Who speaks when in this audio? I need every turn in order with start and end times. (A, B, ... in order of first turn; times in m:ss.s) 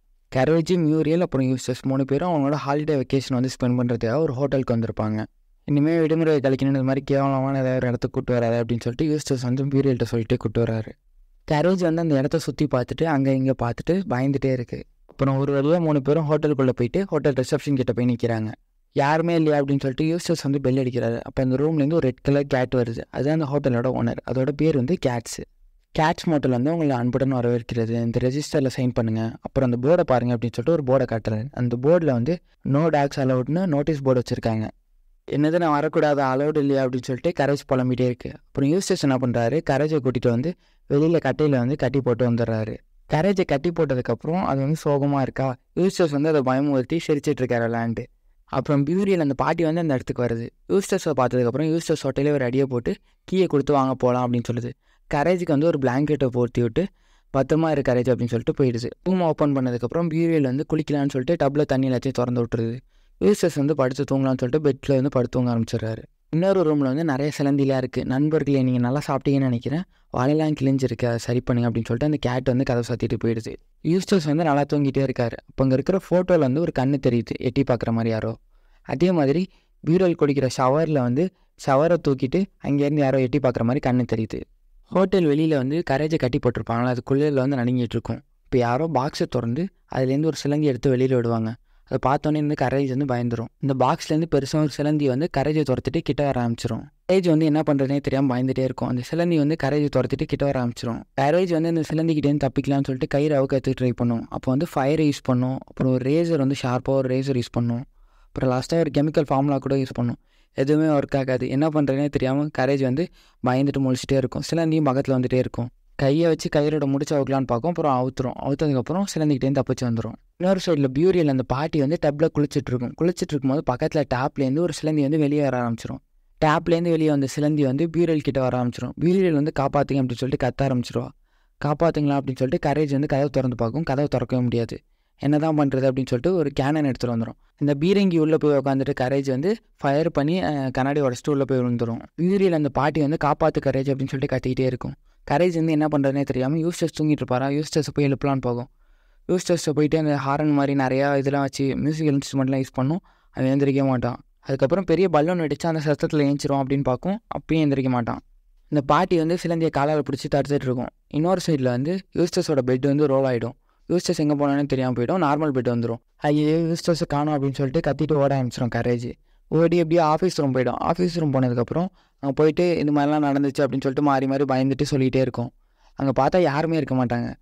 0:00.3-0:10.9 A
0:11.5-0:25.4 A
0:26.0-0:34.7 A
0:35.3-0:48.0 A
0:48.6-0:56.8 A
0:57.3-1:18.3 A
1:18.9-1:24.4 A
1:24.9-1:47.8 A
1:48.3-2:11.1 A
2:11.6-2:28.7 A
2:29.3-2:38.2 A
2:38.7-2:57.3 A